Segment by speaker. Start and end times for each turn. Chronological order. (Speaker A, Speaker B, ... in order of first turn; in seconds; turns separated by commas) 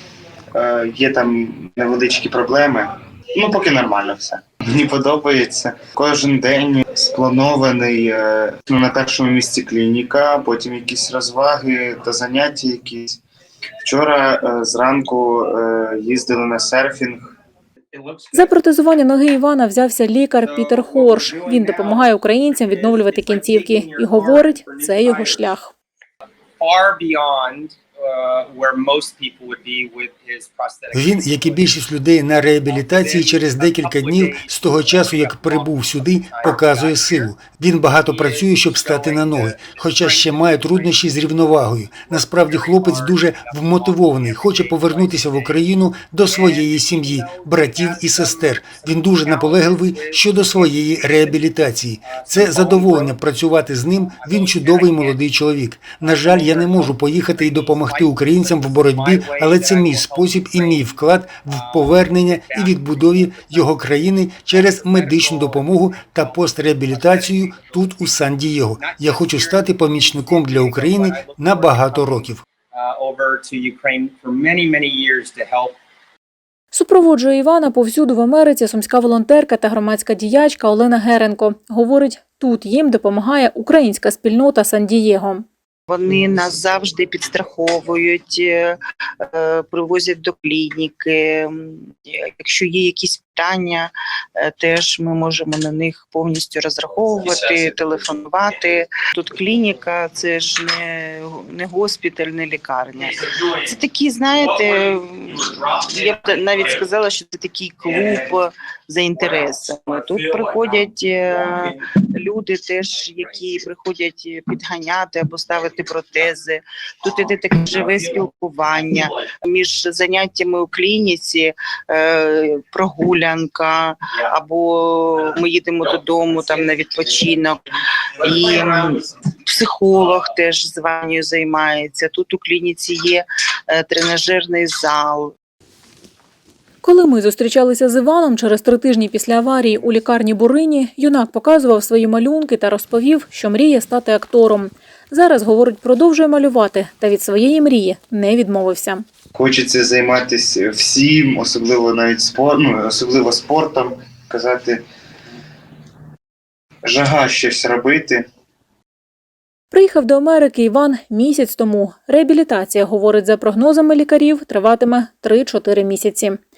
Speaker A: 0.5-13.2, Speaker A: 13.8-17.3, Speaker B: 17.9-18.4, Speaker C: 18.3-25.7, Speaker B: 20.4-25.4, Speaker B: 26.6-31.8, Speaker D: 30.9-72.4, Speaker B: 32.7-37.3, Speaker B: 38.0-45.7, Speaker B: 46.2-53.2, Speaker B: 54.0-55.2, Speaker B: 56.0-68.2, Speaker B: 68.8-75.8, Speaker C: 76.7-85.4, Speaker E: 85.9-127.6, Speaker E: 128.2-135.3, Speaker C: 136.8-149.0, Speaker A: 149.3-154.8, Speaker A: 156.8-158.2, Speaker C: 159.7-166.4